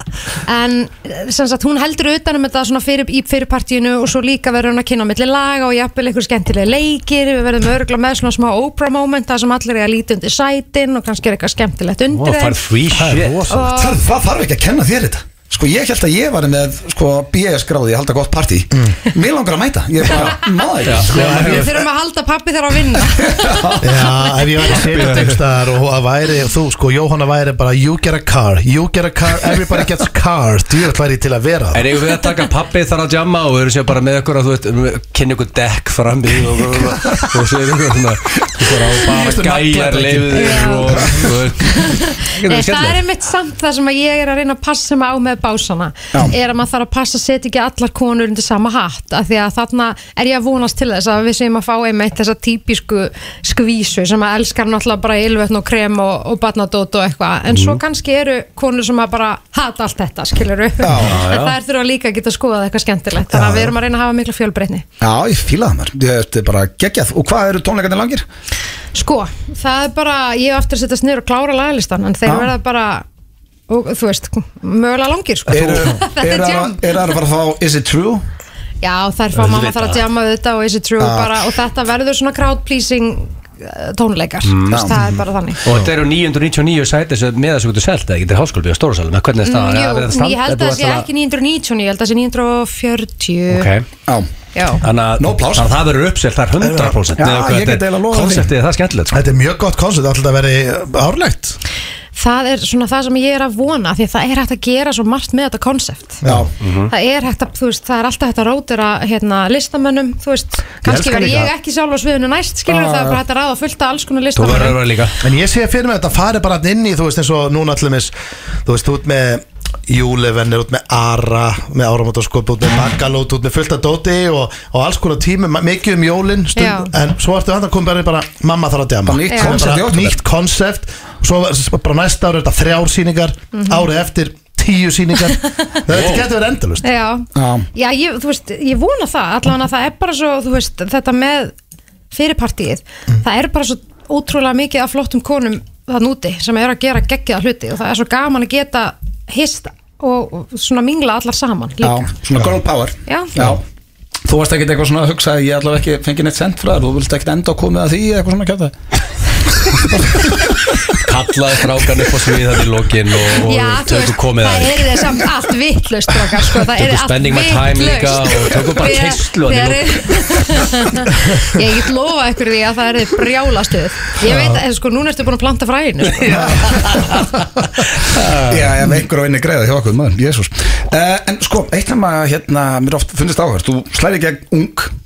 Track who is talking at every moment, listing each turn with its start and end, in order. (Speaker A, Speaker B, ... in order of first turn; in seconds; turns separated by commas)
Speaker A: 0.5-12.7, Speaker B: 12.1-13.6, Speaker C: 12.9-13.7, Speaker A: 13.5-14.0, Speaker D: 13.6-21.5, Speaker A: 20.1-20.5, Speaker B: 20.8-21.6, Speaker C: 21.1-21.8, Speaker A: 21.1-24.8, Speaker D: 23.2-24.0, Speaker C: 23.8-31.8, Speaker B: 24.8-25.3, Speaker B: 31.7-43.0, Speaker D: 38.6-39.2, Speaker C: 39.0-41.1, Speaker A: 40.4-64.9, Speaker B: 57.5-57.8, Speaker D: 60.8-61.2, Speaker B: 60.9-61.6, Speaker D: 63.3-63.7, Speaker D: 65.0-68.2, Speaker A: 68.9-73.1, Speaker D: 72.2-72.5, Speaker A: 73.7-77.2, Speaker D: 75.5-78.3, Speaker B: 75.5-75.9, Speaker A: 78.8-85.6, Speaker B: 79.3-80.0, Speaker D: 81.0-81.5, Speaker B: 84.4-84.9, Speaker D: 84.7-85.0, Speaker B: 85.6-91.1, Speaker A: 89.4-93.7, Speaker B: 93.5-93.9, Speaker A: 94.5-94.8, Speaker B: 94.8-99.2, Speaker D: 95.2-95.8, Speaker C: 96.6-97.0, Speaker D: 97.2-98.5, Speaker C: 99.1-101.6, Speaker A: 102.2-106.2, Speaker C: 106.2-106.5, Speaker D: 106.2-106.5, Speaker B: 106.6-106.9, Speaker A: 106.9-114.9, Speaker C: 110.9-111.4, Speaker D: 112.7-113.2, Speaker B: 114.3-115.2, Speaker C: 115.2-118.1, Speaker C: 118.6-136.9, Speaker A: 126.6-126.9, Speaker D: 129.0-130.2, Speaker A: 129.3-129.6, Speaker A: 133.5-133.9, Speaker A: 135.3-135.8, Speaker B: 135.9-136.3, Speaker A: 136.8-141.5, Speaker D: 137.3-137.7, Speaker A: 142.1-152.1, Speaker D: 151.8-153.6, Speaker A: 153.1-153.4, Speaker D: 154.2-158.8, Speaker B: 160.9-165.2, Speaker A: 163.3-176.6, Speaker B: 166.7-170.7, Speaker B: 176.2-177.3, Speaker D: 176.2-176.9, Speaker B: 178.0-178.6, Speaker D: 178.4-184.9